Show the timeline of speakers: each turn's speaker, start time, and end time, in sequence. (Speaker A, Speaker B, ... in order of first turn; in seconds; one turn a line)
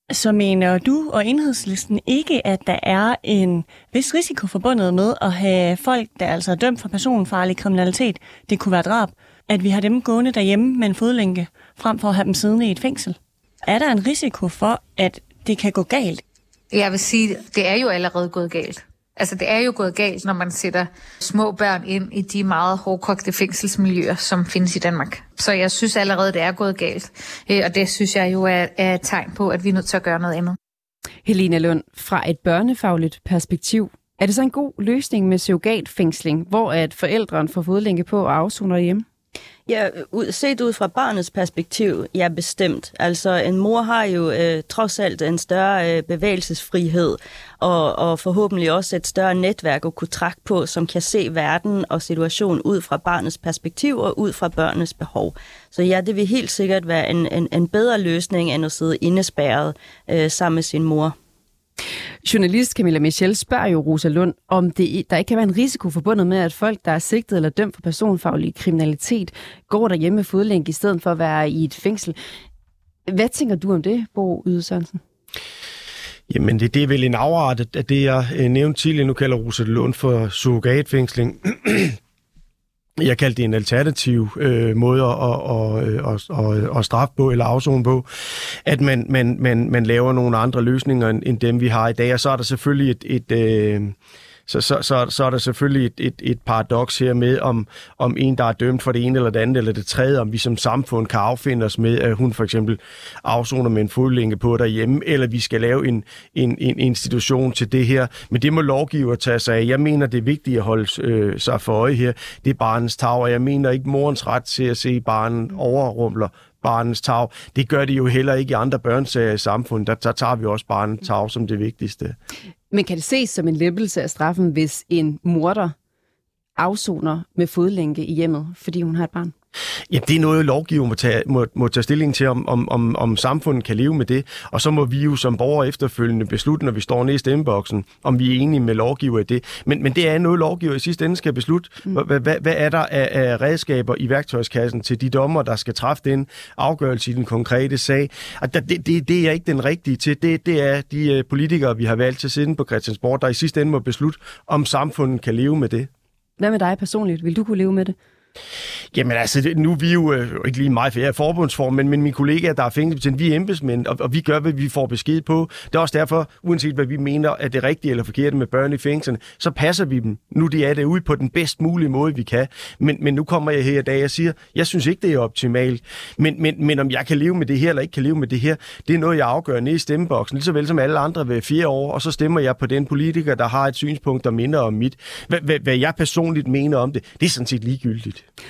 Speaker A: 0.1-16.2
Speaker B: 16.7-30.6
Speaker C: 31.2-39.0
Speaker D: 39.7-61.2
Speaker C: 62.2-72.2
Speaker C: 73.1-75.0
Speaker E: 76.3-82.0
Speaker E: 83.0-88.0
Speaker E: 88.7-94.0
Speaker E: 94.5-122.2
Speaker C: 122.7-125.8
Speaker C: 126.6-129.3
Speaker E: 129.9-155.9
Speaker C: 156.4-158.0
Speaker E: 158.9-188.2